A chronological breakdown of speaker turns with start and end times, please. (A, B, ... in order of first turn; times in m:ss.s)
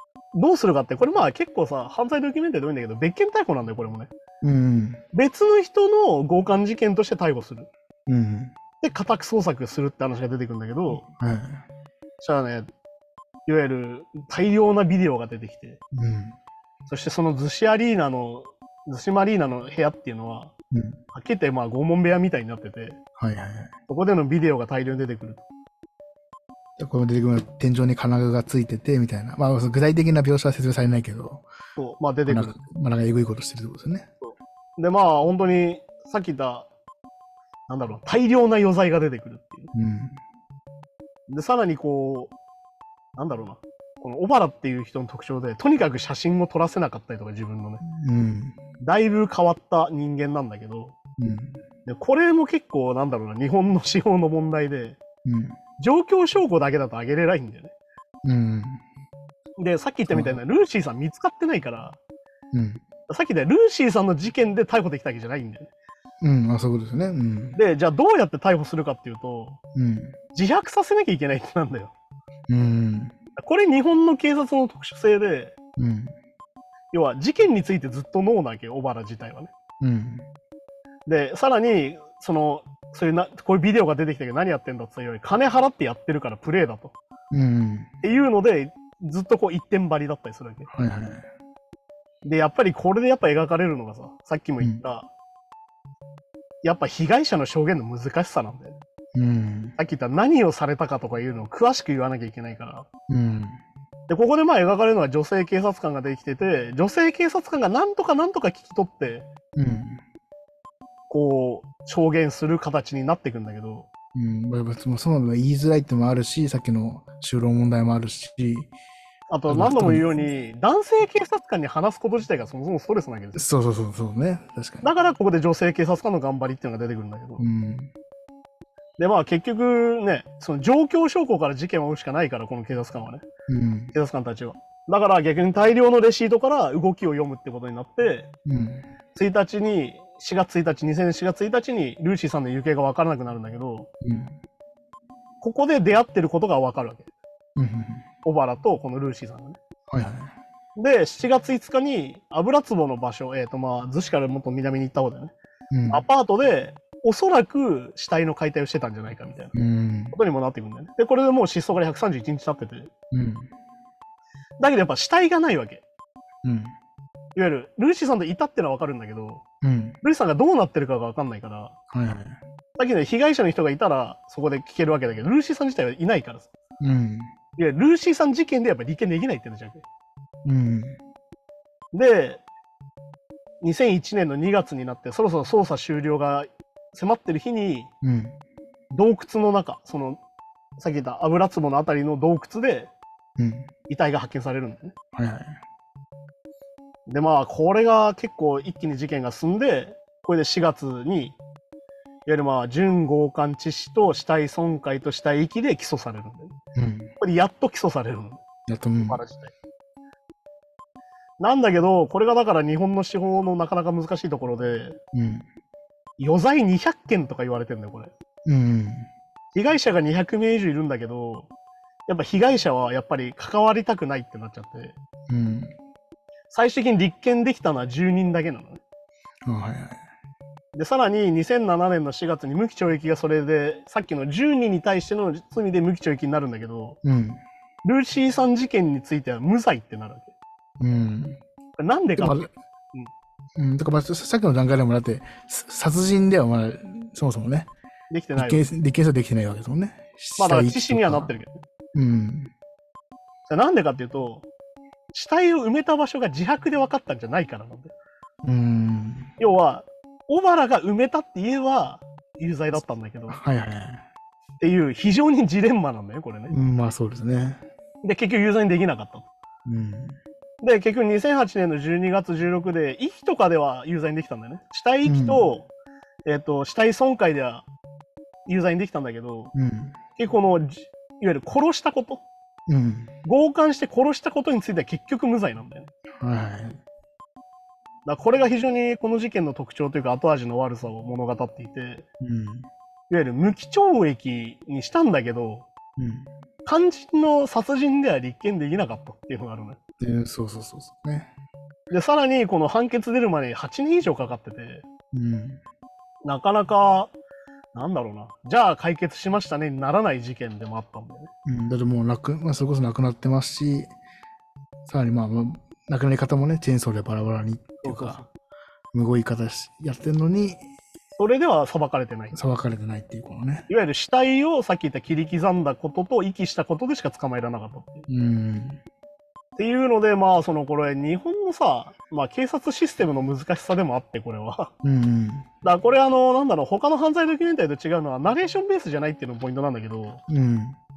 0:00.3-0:04.1 A
0:04.4-0:05.0 B
0:05.1-0:07.7 A
0:08.1-0:08.5 B
0:08.8-0:11.0 A
0:10.9-0:11.6 B
0:12.2-0:12.7 A
0:13.4-0:15.8 A
0:15.9-0:16.4 B
0:16.9-0:20.5 A
0:20.7-0:21.0 B
0:21.1-0:23.0 A
0:23.2-0:23.7 B
0:23.9-0:25.4 A
0:26.8-0:31.5 B
0:31.8-0:32.6 A
0:32.3-0:34.1 B
0:34.2-0:36.7 A
0:37.7-0:39.7 A
0:39.7-0:40.2 B
0:41.3-0:42.3 A
0:43.2-0:47.8 A
0:47.8-0:48.6 B
0:48.8-0:51.0 A
0:51.2-0:51.6 B
0:51.8-0:55.0 A
0:55.2-0:55.6 B
0:55.8-0:57.7 A
0:58.2-0:58.8 B
0:59.6-1:02.0 A
1:00.1-1:00.4 B
1:02.5-1:02.8 B
1:03.1-1:05.7 A
1:06.2-1:07.6 B
1:07.6-1:09.6 A
1:09.7-1:10.2 B
1:10.3-1:11.9 A
1:12.5-1:13.1 B
1:13.4-1:15.5 A
1:15.8-1:16.1 B
1:16.9-1:19.5 A
1:19.8-1:20.3 B
1:21.0-1:26.9 A
1:27.3-1:27.9 B
1:28.0-1:30.7 A
1:30.7-1:31.3 B
1:32.2-1:35.1 A
1:36.6-1:38.8 A
1:39.1-1:39.8 B
1:39.8-1:42.9 A
1:43.1-1:43.6 B
1:44.1-1:49.2 A
1:49.6-1:50.0 B
1:51.1-1:53.9 A
1:54.1-1:58.7 B
1:59.3-2:03.4 A
1:59.5-2:00.1 B
2:03.3-2:04.9 B
2:04.8-2:07.4 A
2:07.4-2:07.9 B
2:09.0-2:13.2 A
2:13.5-2:13.9 B
2:13.9-2:18.3 A
2:18.4-2:18.9 B
2:19.1-2:23.9 A
2:24.0-2:24.4 B
2:25.4-2:27.1 A
2:27.6-2:28.0 B
2:28.2-2:29.6 A
2:29.9-2:30.3 B
2:30.8-2:35.3 A
2:35.7-2:36.0 B
2:35.9-2:39.5 A
2:39.5-2:40.2 B
2:40.1-2:42.9 A
2:43.1-2:43.5 B
2:44.6-2:45.8 A
2:46.4-2:46.7 B
2:47.3-2:49.4 A
2:49.6-2:50.0 B
2:50.0-2:51.7 A
2:51.9-2:52.4 B
2:52.8-2:56.5 A
2:56.8-2:57.3 B
2:57.6-2:59.8 A
3:00.4-3:01.0 B
3:01.9-3:02.4 A
3:03.6-3:07.9 A
3:08.0-3:08.4 B
3:08.9-3:10.2 A
3:10.8-3:12.9 A
3:13.4-3:13.7 B
3:13.9-3:14.9 A
3:15.1-3:15.6 B
3:17.1-3:21.4 A
3:22.2-3:26.5 A
3:26.7-3:27.1 B
3:27.2-3:28.4 A
3:28.7-3:29.2 B
3:29.0-3:29.5 A
3:31.4-3:35.0 A
3:35.1-3:35.5 B
3:36.2-3:38.1 A
3:38.4-3:39.1 B
3:39.5-3:41.5 A
3:42.1-3:45.0 A
3:45.3-3:45.7 B
3:46.5-3:48.8 A
3:49.4-3:50.0 B
3:50.7-3:57.0 A
3:57.0-3:57.4 B
3:57.8-4:00.3 A
4:00.8-4:01.4 B
4:01.8-4:03.1 A
4:02.2-4:02.5 B
4:03.6-4:07.7 B
4:08.1-4:08.6 A
4:08.4-4:11.4 B
4:10.4-4:11.6 A
4:11.9-4:12.5 B
4:13.5-4:14.4 A
4:15.1-4:17.9 A
4:18.4-4:19.3 B
4:19.4-4:23.4 A
4:23.3-4:24.0 B
4:24.6-4:26.5 A
4:26.5-4:27.6 B
4:28.0-4:29.3 A
4:29.6-4:30.2 B
4:30.6-4:35.7 A
4:35.0-4:35.4 B
4:36.2-4:37.6 A
4:38.4-4:39.5 A
4:39.5-4:40.0 B
4:40.2-4:42.2 A
4:42.7-4:43.1 B
4:43.2-4:45.9 A
4:46.2-4:46.8 B
4:48.0-4:52.0 A
4:52.2-4:52.7 B
4:53.1-4:55.7 A
4:56.0-4:56.3 B
4:56.6-4:59.8 A
5:00.0-5:01.3 B
5:01.9-5:04.8 A
5:05.1-5:05.6 B
5:06.2-5:07.1 A
5:07.7-5:11.3 A
5:11.4-5:13.9 B
5:14.8-5:18.2 B
5:17.8-5:18.2 A
5:18.9-5:20.6 B
5:21.2-5:22.4 A
5:22.3-5:23.7 B
5:23.7-5:28.1 A
5:28.1-5:28.8 B
5:29.6-5:34.7 A
5:34.8-5:35.5 B
5:35.6-5:40.2 A
5:40.3-5:40.8 B